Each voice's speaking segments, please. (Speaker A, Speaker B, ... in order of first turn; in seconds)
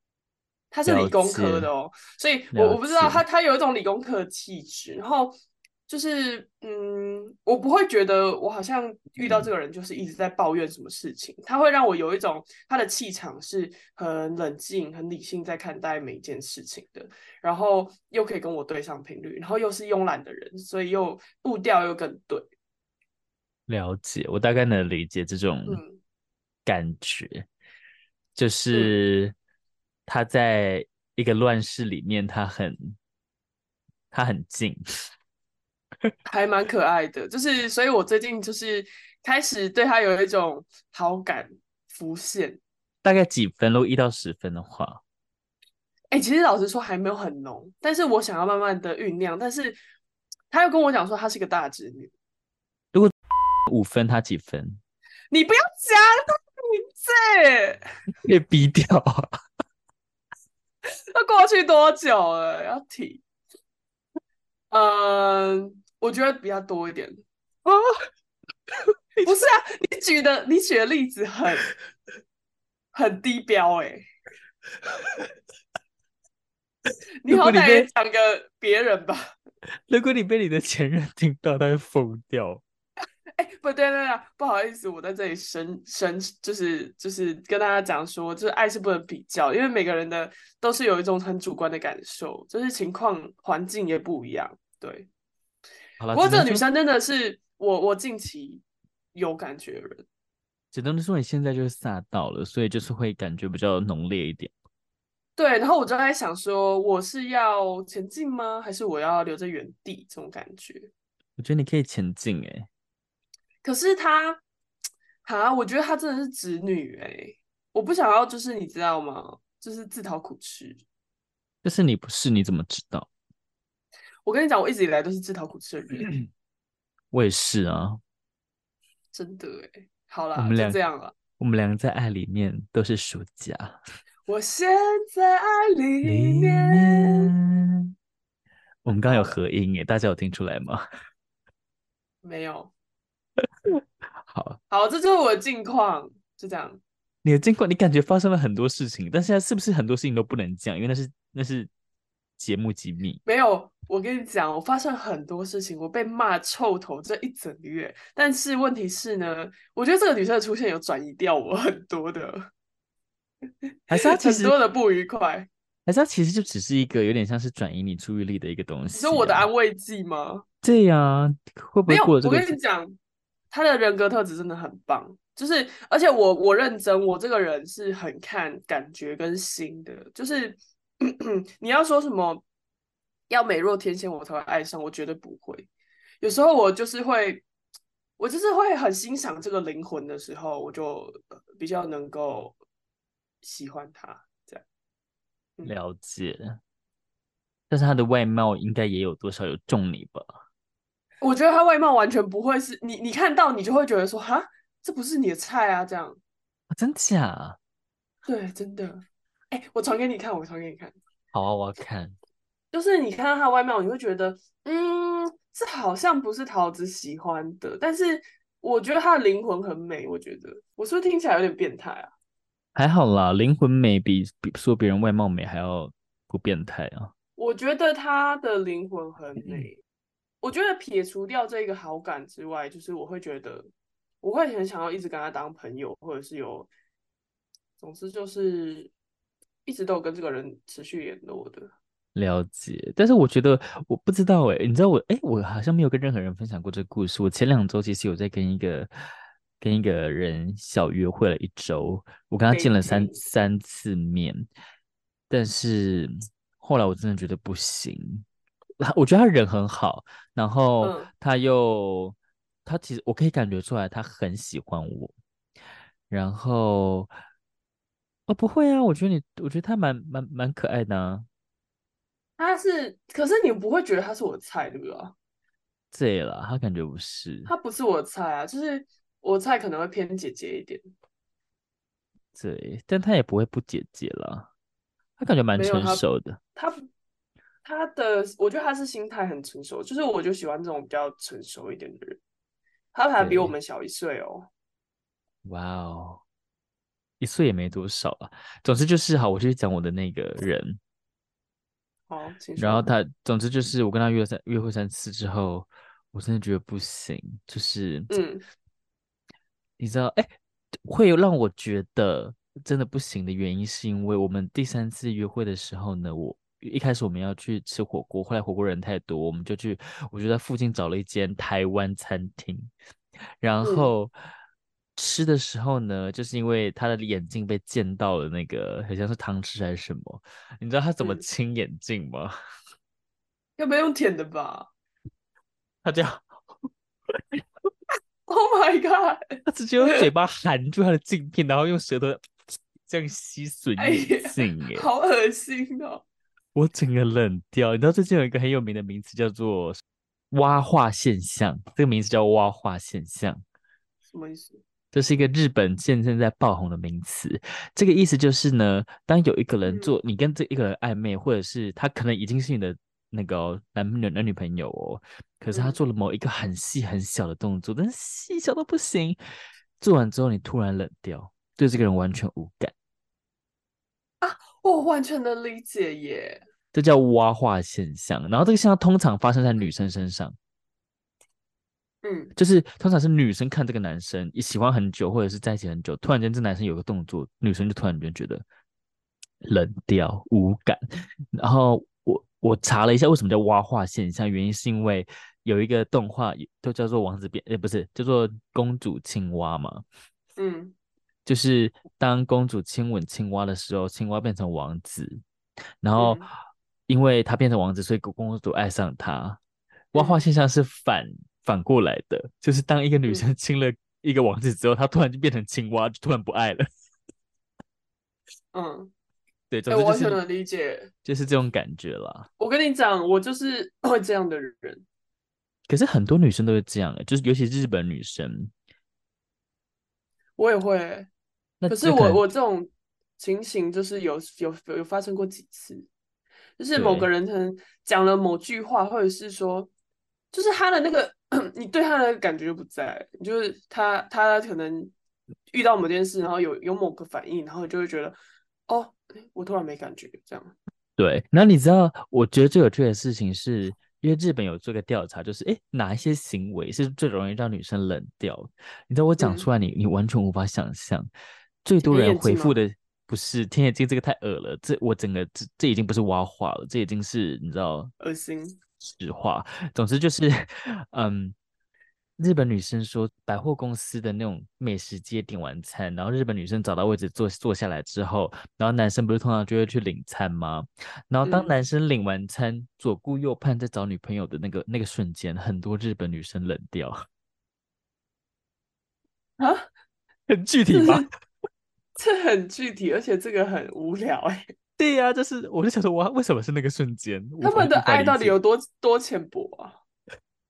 Speaker A: 0.7-5.3, 5.9-22.5, 25.7-26.0, 36.2-42.6, 46.1-49.8, 50.5-52.1, 55.3-57.8, 61.1-63.2, 64.7-67.2, 69.2-71.7, 72.9-74.0, 77.2-79.3, 83.4-95.1, 96.1-98.6, 99.1-100.0, 105.3-110.9, 113.6-114.4, 115.2-120.8, 124.2-126.1, 129.1-131.1, 134.3-137.3, 139.0-139.3, 142.2-142.7, 144.7-146.8, 153.2-162.5, 163.9-165.5, 168.9-170.4, 171.9-172.9, 173.5-182.4, 183.3-185.7, 186.2-187.4, 188.2-192.6, 193.4-194.6, 201.2-206.2, 208.2-210.9, 212.7-222.1, 227.4-229.8, 230.4-233.7, 234.2-236.7, 237.8-238.9, 239.7-241.7, 252.5-253.2, 260.8-261.1, 272.4-275.1, 277.4-280.8, 285.5-286.0, 286.6-286.8, 287.6-292.2, 292.9-294.5, 302.1-302.9, 308.1-308.4, 323.6-323.9, 333.6-334.7, 338.3-340.1, 343.8-346.0, 354.1-354.6, 359.7-359.9, 365.5-365.8, 374.2-376.4, 382.0-382.3, 400.4-400.7, 405.9-406.3, 409.9-410.2, 418.5-418.9, 419.7-420.9, 422.4-424.8, 430.4-431.1, 431.7-435.9, 436.6-439.7, 440.3-444.9, 445.5-448.1, 448.7-450.5, 459.2-459.4, 461.8-462.5, 468.0-468.6, 481.2-481.5, 489.4-489.7, 490.7-491.1, 491.9-494.5, 497.4-499.8
Speaker B: 0.8-1.7, 2.5-3.2, 9.2-9.5, 23.7-25.8, 26.6-27.4, 28.4-29.3, 30.1-33.0, 34.1-34.8, 43.0-45.0, 53.7-54.8, 58.2-59.3, 67.6-68.1, 69.2-69.4, 74.9-75.2, 77.3-77.9, 79.9-82.6, 96.0-96.6, 100.7-104.5, 111.4-112.7, 121.6-123.1, 127.1-128.0, 130.3-130.8, 131.4-133.8, 136.0-137.9, 138.8-140.8, 143.4-144.6, 147.2-151.7, 152.4-153.2, 163.9-164.5, 165.8-169.5, 170.6-172.5, 195.6-196.6, 197.7-200.3, 206.7-207.6, 211.3-212.1, 222.7-227.1, 229.4-229.7, 242.1-248.9, 249.6-254.4, 255.3-258.2, 258.8-265.1, 266.1-267.1, 268.3-271.3, 275.9-277.5, 282.3-284.5, 285.2-286.4, 293.2-293.5, 295.4-296.2, 297.2-300.8, 302.6-308.1, 309.8-322.7, 323.4-324.1, 324.9-332.3, 335.8-337.4, 339.5-344.9, 346.5-349.8, 350.3-353.4, 354.9-369.2, 369.8-372.7, 376.7-380.3, 382.4-388.4, 389.4-399.8, 401.2-405.2, 405.8-406.3, 406.9-409.4, 409.9-416.6, 419.5-420.2, 421.0-422.3, 425.7-428.5, 431.6-432.2, 436.7-437.1, 451.0-461.1, 461.6-467.9, 468.8-471.4, 472.2-487.0, 490.3-491.1, 494.8-498.3